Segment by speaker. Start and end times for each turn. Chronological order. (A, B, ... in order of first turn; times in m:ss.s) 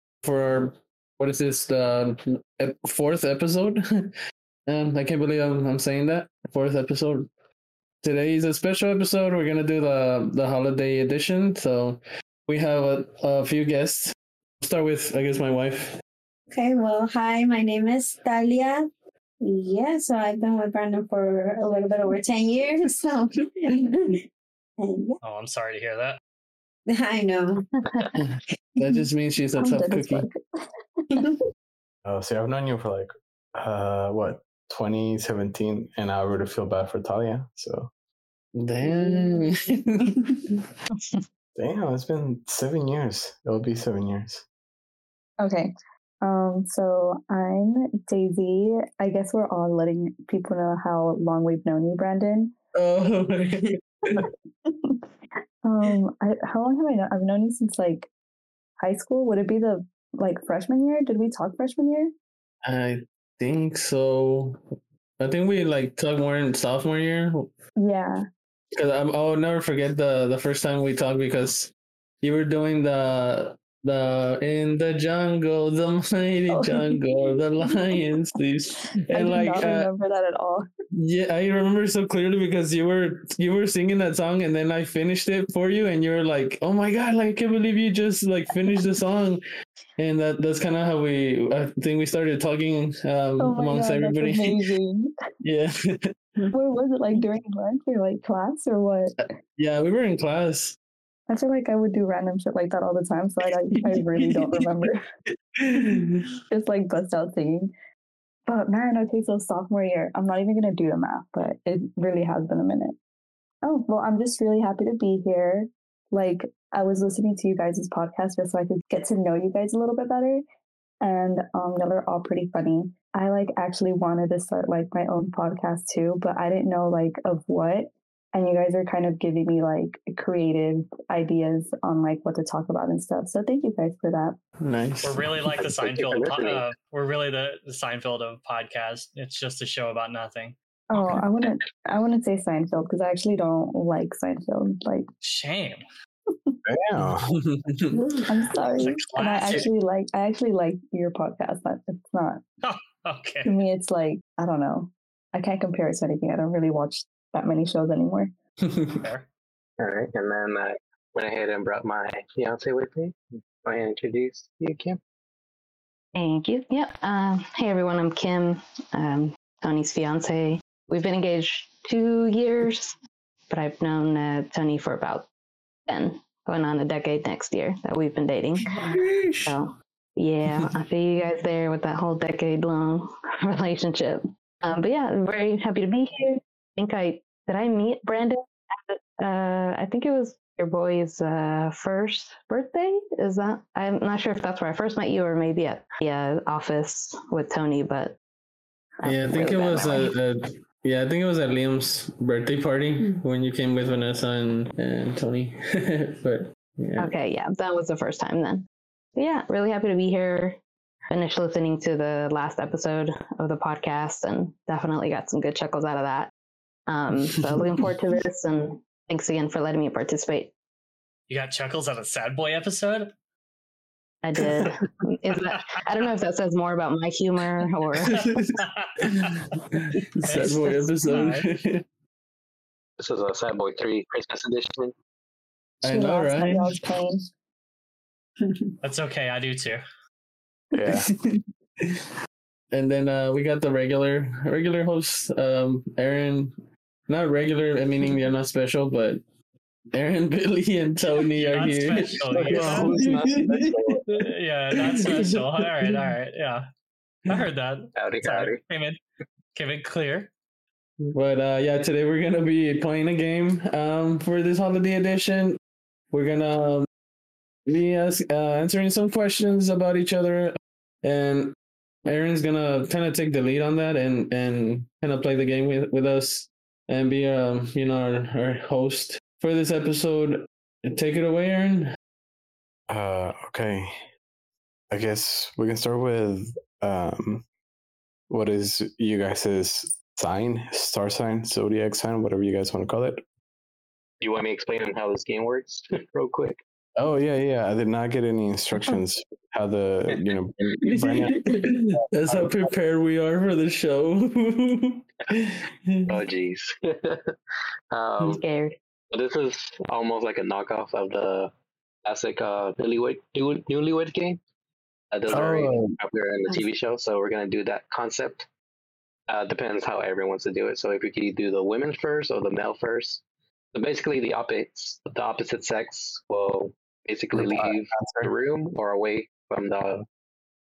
0:00.2-0:04.1 A
0:04.7-0:07.3 A
0:08.0-0:16.0 A
0:16.5-0:18.9 B
0:19.4-0:24.2 B
0:24.8-0:25.2 B
0:25.2-0:26.2 C
0:26.9-0:27.7 B
0:28.2-0:30.2 A
0:29.6-0:30.4 D
0:32.0-0:37.9 E
0:38.5-0:40.6 A
0:41.6-0:44.4 E
0:45.4-0:45.7 D
0:46.2-0:52.5 D
0:52.7-0:54.3 A
0:54.7-0:55.0 D
0:55.6-0:58.1 D
0:58.8-1:02.1 D
1:02.6-1:04.6 A
1:05.2-1:07.5 A
1:07.8-1:08.2 D
1:08.7-1:19.9 A
1:16.5-1:17.0 D
1:17.6-1:18.0 D
1:19.1-1:20.6 D
1:20.9-1:29.4 A
1:30.0-1:34.7 A
1:33.4-1:35.1 D
1:35.4-1:36.5 A
1:36.5-1:39.1 D
1:39.2-1:40.8 A
1:41.3-1:45.0 D
1:43.7-1:44.7 A
1:45.6-1:46.3 A
1:46.5-1:47.7 D
1:48.5-1:52.9 D
1:53.6-2:00.4 D
2:01.0-2:14.4 D
2:14.6-2:15.5 A
2:15.0-2:20.6 C
2:15.6-2:16.7 F
2:20.9-2:25.1 D
2:25.2-2:25.8 C
2:26.6-2:27.3 E
2:27.0-2:28.5 A
2:28.1-2:32.4 D
2:28.7-2:29.7 C
2:32.6-2:33.5 C
2:33.4-2:38.3 D
2:38.6-2:39.0 A
2:38.9-2:39.3 C
2:39.8-2:45.0 F
2:46.1-2:53.0 G
2:53.5-2:55.3 G
2:55.9-3:18.2 G
2:58.9-2:59.6 A
3:19.0-3:20.2 G
3:19.0-3:27.1 A
3:27.0-3:30.6 G
3:31.1-3:36.3 G
3:36.9-3:40.5 G
3:41.3-3:43.1 C
3:44.2-3:48.3 G
3:45.4-3:45.8 C
3:48.1-3:51.8 A
3:48.6-3:49.4 C
3:50.2-3:51.5 C
3:53.0-3:54.9 F
3:55.8-3:56.8 A
3:55.8-3:57.2 D
3:58.8-3:59.8 C
4:00.7-4:01.1 E
4:00.9-4:02.1 A
4:02.7-4:09.2 A
4:09.9-4:16.1 A
4:11.2-4:13.0 C
4:12.4-4:14.0 F
4:12.6-4:13.2 E
4:14.1-4:16.6 C
4:17.3-4:19.0 C
4:18.0-4:18.6 F
4:19.5-4:20.3 C
4:21.1-4:25.6 A
4:26.1-4:26.9 A
4:27.7-4:41.9 A
4:42.9-4:44.0 E
4:44.9-4:47.4 E
4:48.3-4:53.2 E
4:54.2-4:56.6 F
4:57.0-5:02.0 E
5:00.8-5:06.2 A
5:02.3-5:02.7 F
5:06.1-5:07.3 F
5:07.9-5:08.4 F
5:08.3-5:08.8 G
5:09.1-5:11.5 F
5:12.0-5:14.4 F
5:15.1-5:18.5 F
5:15.3-5:16.0 E
5:19.3-5:23.2 F
5:23.7-5:30.0 F
5:27.3-5:28.3 E